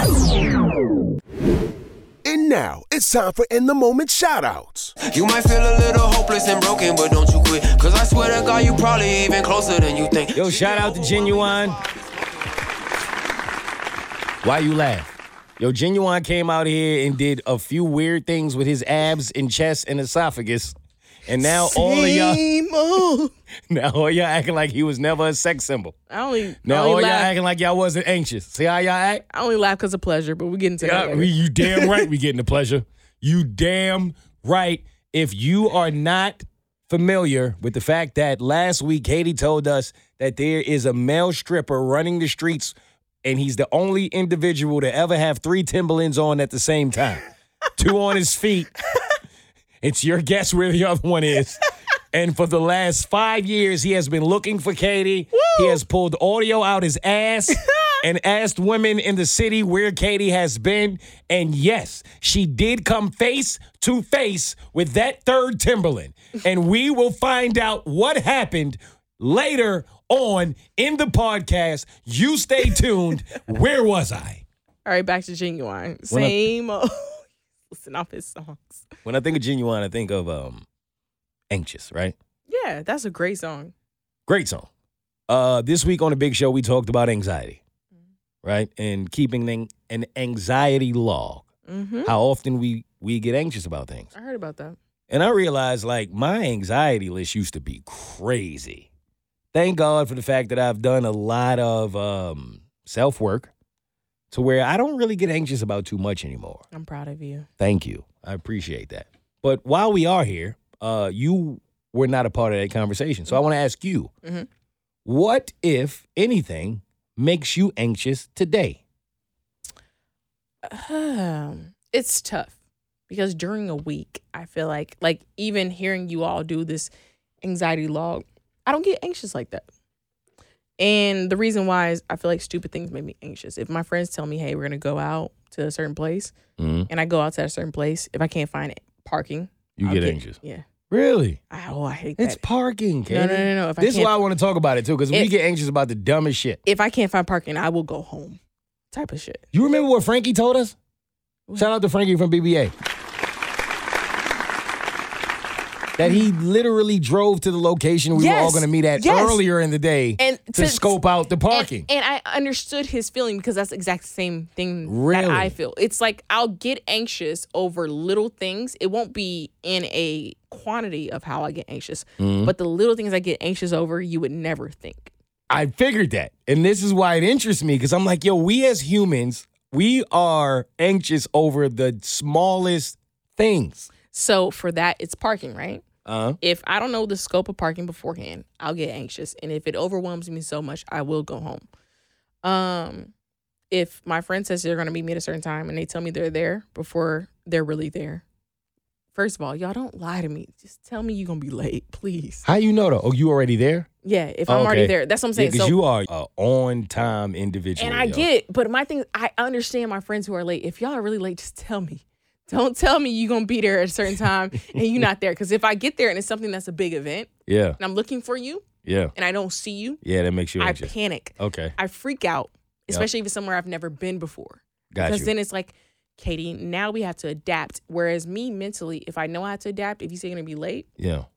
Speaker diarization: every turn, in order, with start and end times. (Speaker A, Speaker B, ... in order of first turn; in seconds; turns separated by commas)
Speaker A: 2.2-4.9, Speaker B: 5.0-12.7, Speaker C: 10.3-11.8, Speaker C: 14.4-22.4, Speaker D: 21.4-23.3, Speaker C: 23.7-25.9, Speaker D: 26.1-27.3, Speaker C: 26.6-29.2, Speaker D: 29.3-32.1, Speaker C: 30.8-47.2, Speaker C: 47.8-48.7, Speaker C: 49.8-74.4, Speaker D: 55.3-55.8, Speaker D: 57.5-58.0, Speaker D: 74.8-78.9, Speaker C: 76.1-76.4, Speaker C: 79.0-80.7, Speaker C: 81.5-82.2, Speaker D: 82.5-83.7, Speaker C: 84.3-84.7, Speaker C: 85.3-87.6, Speaker C: 88.4-91.5, Speaker D: 91.7-92.1, Speaker C: 92.0-94.1, Speaker D: 94.2-94.8, Speaker C: 95.1-98.9, Speaker C: 99.5-103.5, Speaker C: 104.3-106.6, Speaker D: 106.7-107.5, Speaker C: 107.6-114.1, Speaker C: 115.0-118.8, Speaker D: 120.6-122.5, Speaker D: 123.1-126.9, Speaker D: 127.4-129.7, Speaker D: 130.8-136.3, Speaker C: 136.6-136.9, Speaker D: 136.9-140.7, Speaker C: 139.8-140.4, Speaker C: 140.9-141.4, Speaker D: 141.5-142.4, Speaker C: 142.2-146.6, Speaker D: 143.1-144.1, Speaker D: 146.7-148.4, Speaker D: 148.9-149.4, Speaker C: 149.5-150.8, Speaker C: 151.6-152.7, Speaker C: 156.0-161.9, Speaker D: 156.0-156.3, Speaker D: 158.1-159.4, Speaker D: 160.2-161.0, Speaker D: 161.5-175.1, Speaker C: 164.9-165.6, Speaker C: 172.2-172.5, Speaker C: 175.5-183.9, Speaker D: 184.1-185.8, Speaker C: 186.1-186.4, Speaker D: 186.4-191.7, Speaker D: 192.4-193.1, Speaker D: 193.7-198.2, Speaker D: 199.2-202.5, Speaker C: 202.4-203.9, Speaker D: 204.0-205.8, Speaker C: 204.5-208.3, Speaker D: 207.8-220.0, Speaker C: 217.5-217.8, Speaker C: 218.8-219.1, Speaker C: 220.0-221.7, Speaker D: 220.6-230.9, Speaker C: 224.9-225.3, Speaker C: 231.0-231.3